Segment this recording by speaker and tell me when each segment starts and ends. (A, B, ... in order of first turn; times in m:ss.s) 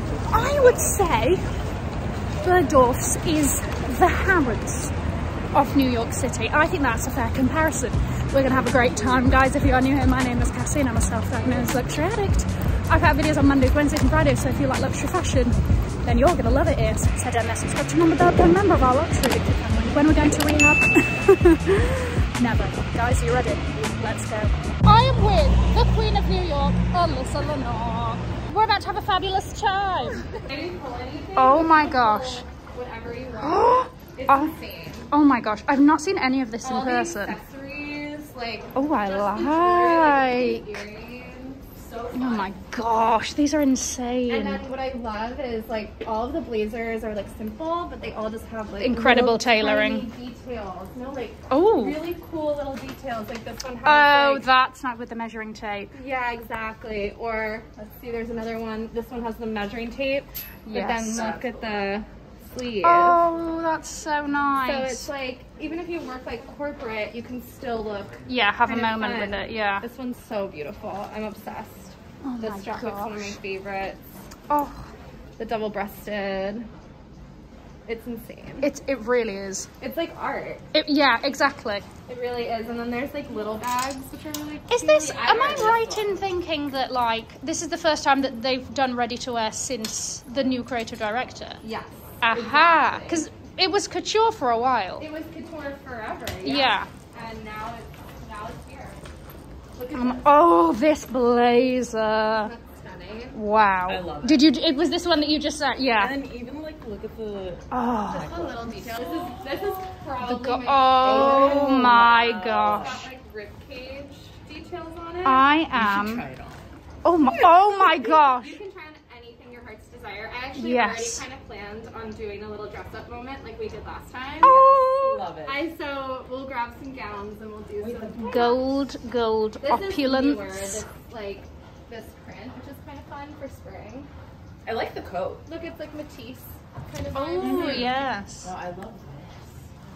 0:00.3-0:01.4 A
0:02.4-0:04.9 A
0:05.5-0:30.4 A
0:30.4-0:35.1 B
0:31.4-0:32.4 A
0:33.3-0:34.6 A
0:35.1-0:37.4 A
0:36.6-0:41.6 B
0:38.8-0:40.8 A
0:41.8-0:42.5 C
0:42.1-0:44.6 A
0:44.3-0:54.5 B
0:48.8-0:50.1 A
0:51.5-0:52.0 A
0:53.8-0:55.9 A
0:55.9-1:03.2 B
1:00.7-1:01.4 A
1:02.8-1:05.1 A
1:04.6-1:14.0 B
1:08.3-1:09.9 A
1:12.2-1:13.4 A
1:14.5-1:14.9 A
1:15.4-1:16.7 B
1:17.9-1:18.7 B
1:18.6-1:19.7 A
1:19.8-1:20.7 B
1:20.7-1:21.9 A
1:22.1-1:25.9 B
1:24.7-1:31.6 A
1:25.3-1:26.1 C
1:31.6-1:33.2 B
1:32.2-1:35.1 A
1:35.0-1:39.1 B
1:36.4-1:36.9 A
1:39.8-1:40.3 B
1:39.9-1:42.5 A
1:42.4-1:43.4 B
1:43.3-1:46.2 A
1:43.9-1:44.5 C
1:45.9-1:49.2 C
1:47.7-1:48.4 A
1:48.1-1:55.5 B
1:50.2-1:53.1 A
1:51.0-1:53.1 C
1:55.2-1:56.3 A
1:55.7-1:56.7 C
1:57.0-1:58.6 A
1:57.2-2:08.8 B
2:00.6-2:01.2 A
2:04.4-2:05.6 C
2:07.8-2:08.4 C
2:08.2-2:10.9 A
2:09.6-2:14.1 B
2:14.6-2:15.5 C
2:15.5-2:18.1 B
2:17.2-2:18.5 A
2:17.4-2:19.5 C